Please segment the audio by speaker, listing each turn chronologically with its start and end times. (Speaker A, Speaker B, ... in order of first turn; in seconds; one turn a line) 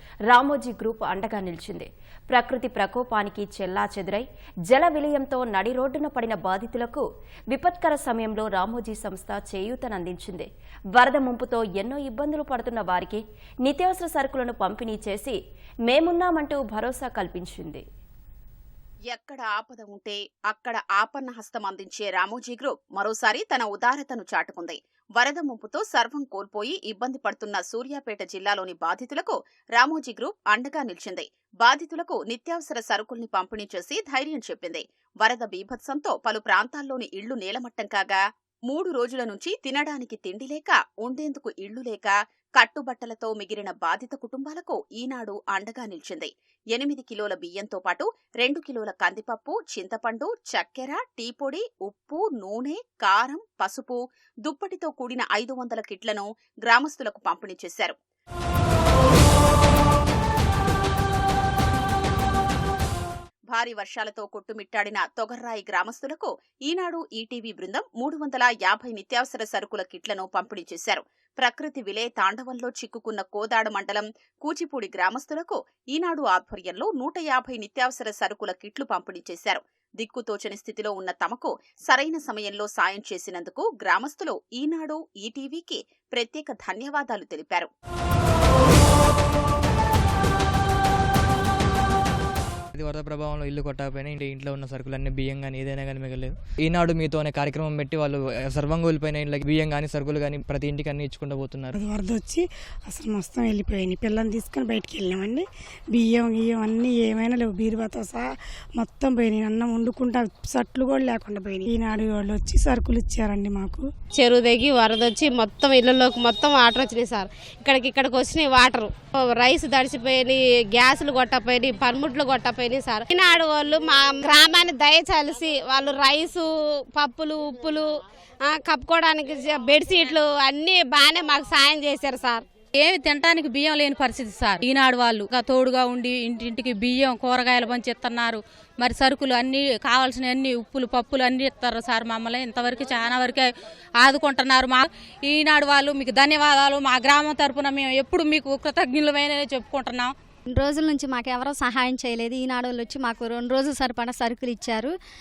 Speaker A: 0.3-17.8
Speaker B: 19.1-58.0
Speaker B: 63.5-87.7
Speaker C: 92.8-101.8
Speaker D: 101.8-102.4
Speaker D: 102.9-105.4
Speaker D: 106.0-108.2
Speaker D: 108.8-113.8
Speaker E: 114.2-132.4
Speaker F: 132.8-143.5
Speaker F: 144.0-150.1
Speaker G: 150.5-154.9